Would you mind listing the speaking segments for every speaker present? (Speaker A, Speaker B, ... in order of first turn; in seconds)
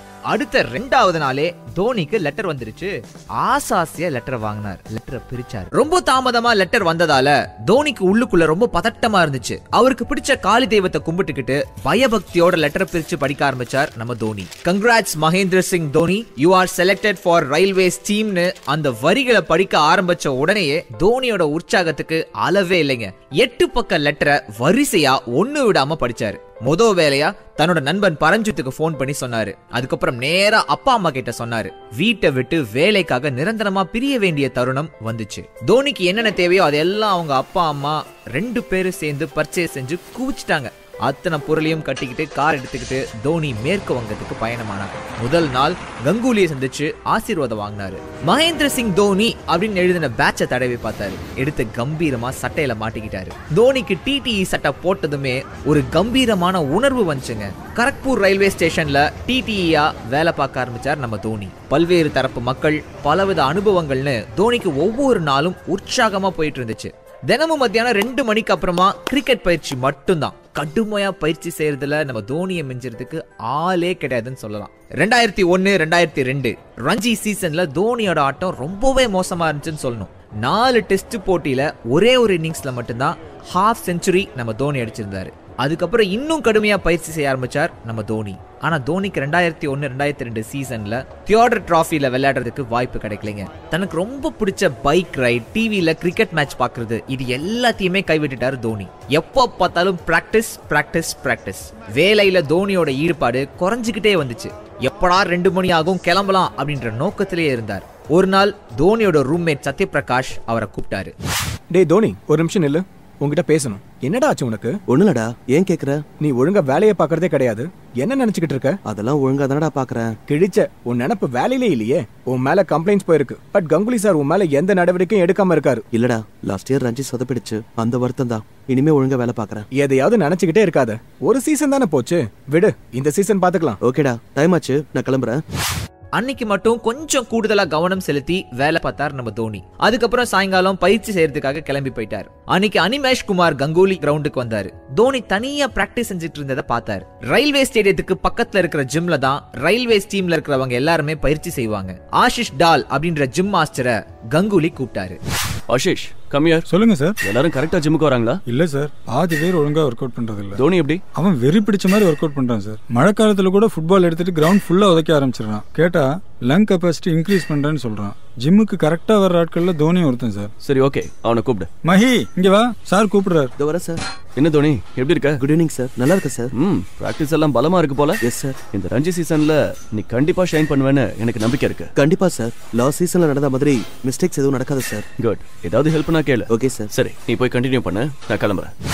Speaker A: 0.3-111.1, 136.2-155.2
Speaker B: 111.7-114.8, 116.2-118.8, 120.3-125.8, 129.7-133.8
Speaker C: 114.9-116.0, 118.9-120.1, 125.9-129.6, 133.8-135.4, 173.6-174.0, 175.4-176.5, 178.2-178.6, 181.9-185.0, 186.5-186.9
Speaker D: 155.7-156.7, 157.2-158.4, 160.6-161.0, 170.6-171.7, 174.3-175.4, 176.5-178.2, 178.7-181.9, 185.2-188.7
Speaker E: 156.7-157.2, 158.5-160.6, 161.2-170.5, 171.8-173.5